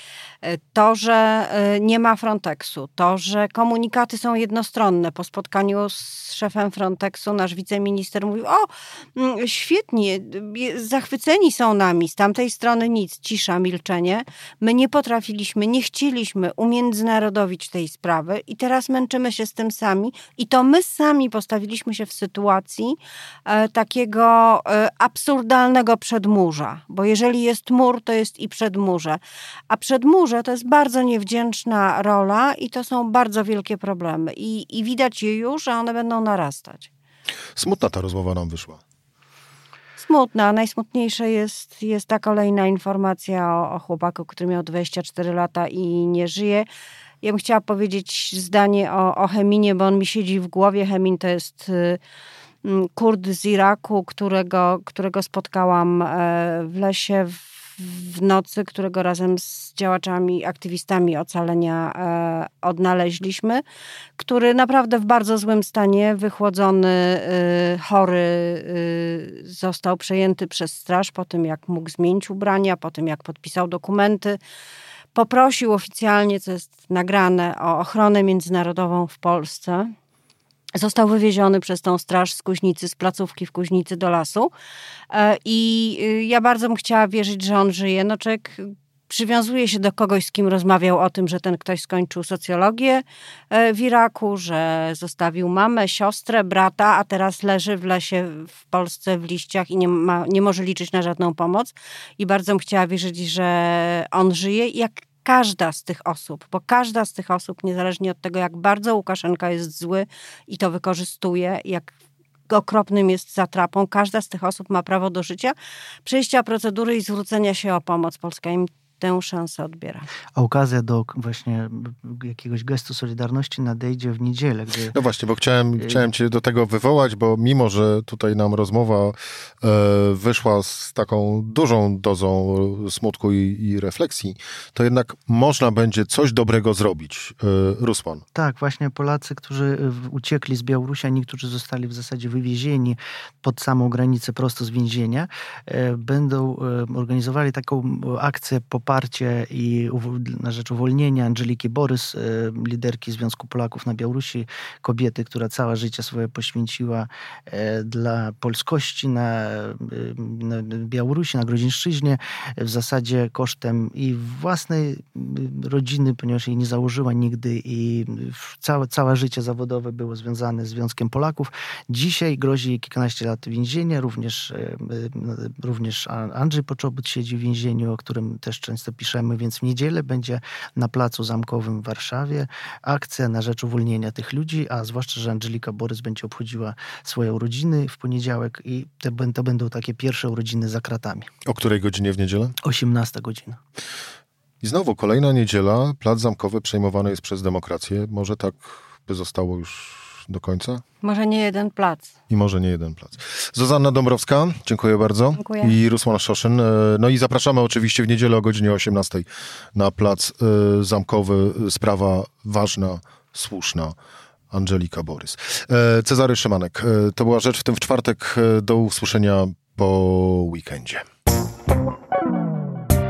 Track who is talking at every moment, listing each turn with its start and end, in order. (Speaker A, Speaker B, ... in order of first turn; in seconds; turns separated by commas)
Speaker A: 0.4-29.2, Speaker A: 29.7-36.9, Speaker B: 37.5-38.8, Speaker A: 40.0-46.6, Speaker A: 47.2-52.0, Speaker A: 52.6-63.6, Speaker A: 64.2-74.4, Speaker A: 75.1-79.9, Speaker A: 80.8-84.5, Speaker A: 85.1-111.9, Speaker A: 112.5-120.0, Speaker C: 120.3-125.0, Speaker B: 124.9-138.2, Speaker C: 138.3-191.3, Speaker B: 191.4-192.6, Speaker C: 192.6-193.6, Speaker B: 194.6-200.8, Speaker A: 201.0-202.1, Speaker B: 202.3-213.9, Speaker A: 205.4-205.7, Speaker B: 214.5-221.0